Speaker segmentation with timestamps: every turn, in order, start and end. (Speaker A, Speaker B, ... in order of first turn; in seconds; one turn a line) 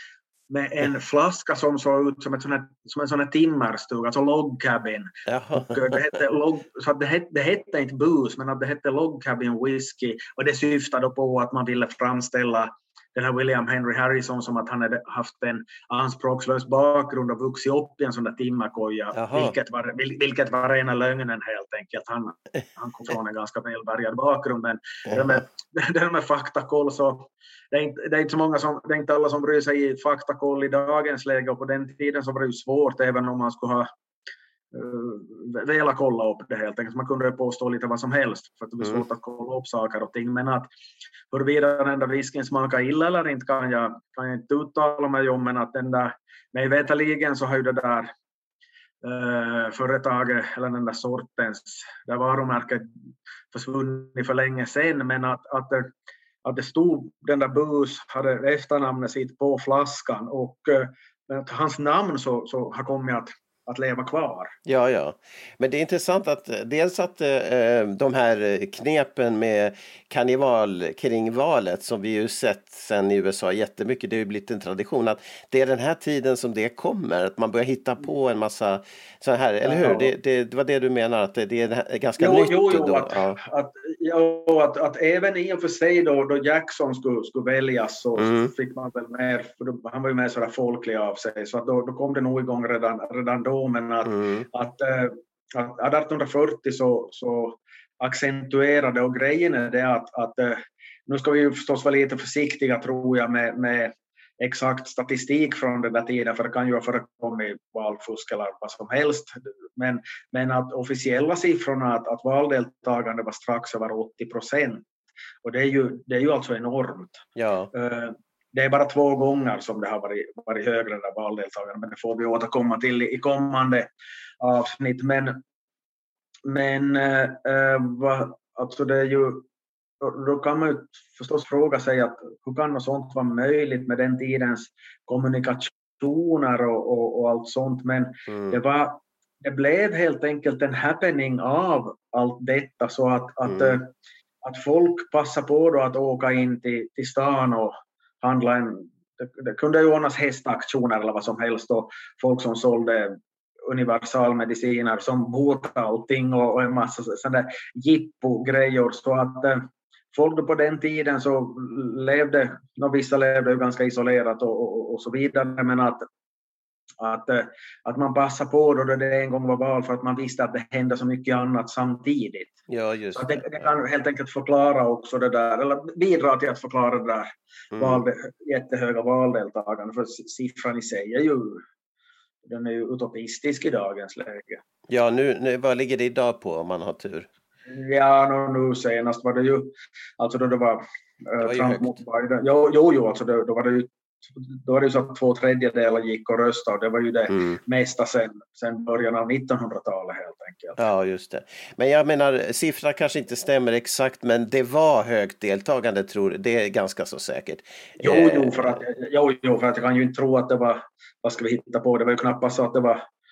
Speaker A: 0.5-33.9
Speaker B: 5.3-6.0
Speaker B: 19.1-19.5
Speaker A: 34.7-40.7
Speaker A: 41.3-48.1
Speaker A: 49.0-52.9
Speaker A: 53.5-55.9
Speaker A: 56.4-64.5
Speaker B: 64.7-83.4
Speaker A: 79.7-80.1
Speaker A: 82.2-114.8
Speaker B: 88.2-88.5
Speaker B: 94.1-94.5
Speaker A: 115.4-125.4
Speaker B: 117.4-117.7
Speaker A: 126.5-129.5
Speaker A: 130.0-166.0
Speaker A: 167.0-172.6
Speaker B: 172.7-173.7
Speaker A: 173.1-181.6
Speaker B: 177.7-178.1
Speaker A: 182.4-184.6
Speaker B: 184.9-187.3
Speaker A: 187.7-193.9
Speaker B: 191.4-192.0
Speaker A: 194.5-200.8
Speaker B: 197.3-197.6
Speaker B: 200.8-208.8
Speaker A: 208.0-213.0